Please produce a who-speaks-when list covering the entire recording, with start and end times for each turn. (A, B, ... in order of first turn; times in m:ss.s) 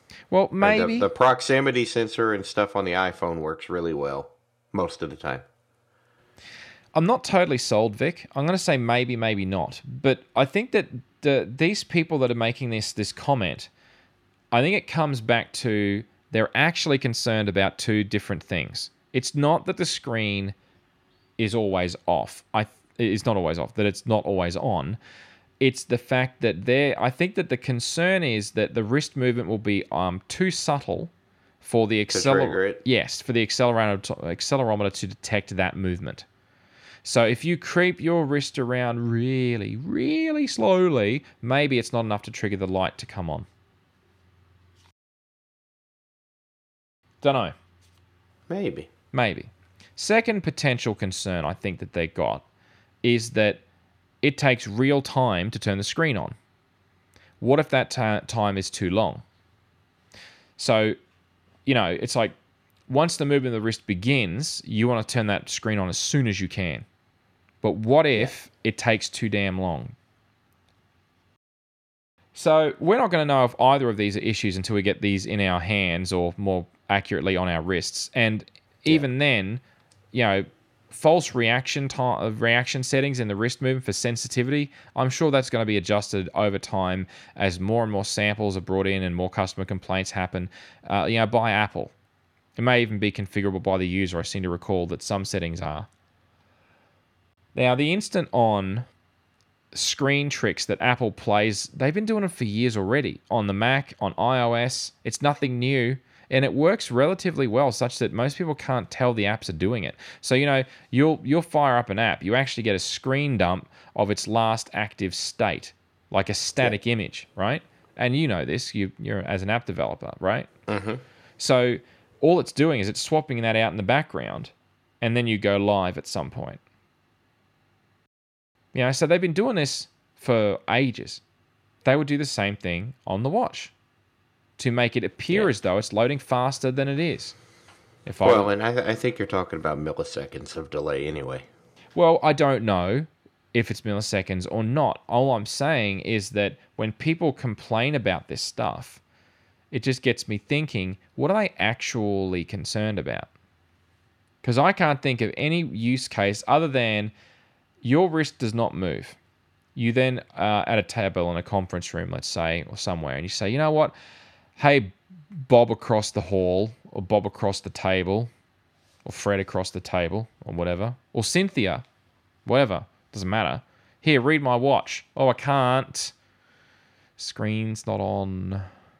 0:00.3-0:01.1 A
0:00.6-0:05.4 B
0:07.0-0:13.7 A
0:14.5-0:20.6 A
0:21.4-0:25.0 A
0:25.6-0:36.2 A
0:32.1-0:32.8 B
0:37.0-0:43.5 A
0:47.2-0:47.6 A
0:48.5-0:48.9 B
0:49.1-0:52.4 A
0:53.0-0:53.6 A
0:54.2-0:56.4 A
0:57.4-0:59.2 A
1:00.6-1:01.0 A
1:01.6-1:02.3 A
1:02.9-1:06.9 A
1:07.6-1:09.9 A
1:12.3-1:19.6 A
1:20.1-1:31.9 A
1:32.6-1:35.9 A
1:37.6-1:38.9 A
1:39.7-2:00.5 A
2:00.7-2:01.0 B
2:01.4-2:06.6 A
2:08.7-2:11.2 A
2:11.8-2:13.7 A
2:14.6-2:17.4 A
2:18.1-2:18.5 A
2:18.2-2:21.4 B
2:22.0-2:29.0 A
2:29.7-2:33.3 A
2:34.4-2:37.1 A
2:37.8-2:39.2 A
2:39.8-2:43.9 A
2:44.6-2:48.3 A
2:49.0-2:51.8 A
2:52.4-2:56.1 A
2:57.2-2:58.7 A